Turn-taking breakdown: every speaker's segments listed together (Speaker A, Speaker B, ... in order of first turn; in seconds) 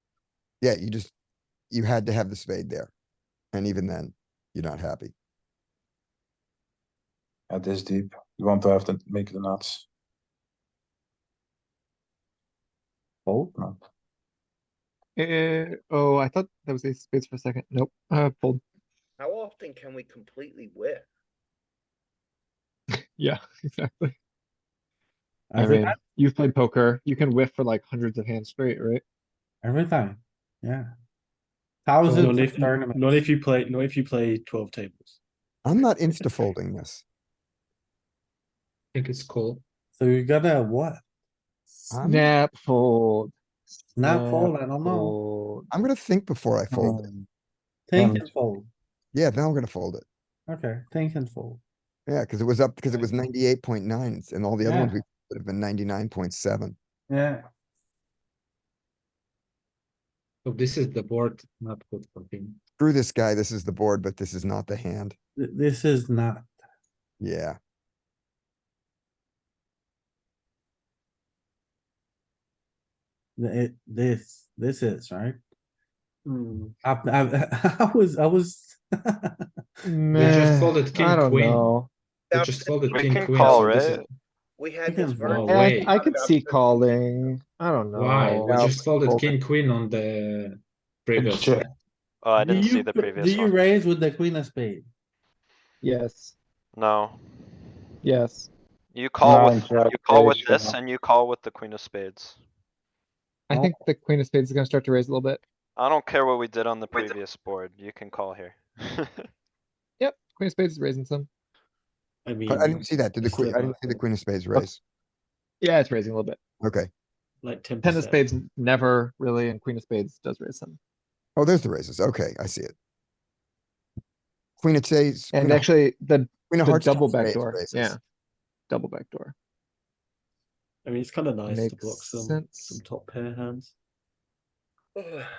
Speaker A: 0.6-1.1, 1.7-2.9, 3.5-5.1, 35.6-37.0, 41.9-42.3, 45.7-47.1, 49.1-50.0, 52.1-56.8, 62.8-65.2, 67.2-67.6, 112.5-114.8, 116.6-116.9, 121.3-122.7, 124.6-125.7, 126.5-128.0
Speaker B: 7.5-9.8, 46.7-47.2, 48.0-48.3, 91.2-91.7, 99.2-100.8
Speaker C: 13.2-13.5, 25.5-25.9, 29.6-30.9, 31.9-33.2, 39.9-41.0, 44.0-45.2, 47.9-48.7, 50.5-51.6, 54.6-55.0, 57.1-57.4, 65.4-66.5, 73.4-75.4, 76.8-79.3, 80.1-80.5, 84.8-85.5, 92.4-94.8
Speaker D: 15.2-18.6, 23.1-24.1, 25.6-29.0, 42.0-43.3, 43.9-45.7, 79.8-81.9, 85.5-89.3, 95.8-96.3, 98.0-98.5, 103.5-105.4, 110.0-111.3, 115.6-116.4, 117.8-120.8, 125.3-128.0, 128.7-129.3, 131.4-132.8
Speaker E: 19.2-21.1, 82.3-84.0, 84.6-86.8, 134.9-135.3
Speaker F: 32.0-35.2, 76.2-76.7, 112.2-114.0, 117.4-118.2, 130.8-133.7
Speaker G: 38.9-39.6, 60.4-62.6, 80.1-81.7, 82.3-84.0, 85.3-85.9, 87.9-91.7
Speaker H: 82.9-84.0, 92.2-93.6, 96.7-97.6, 98.9-102.4, 105.8-109.2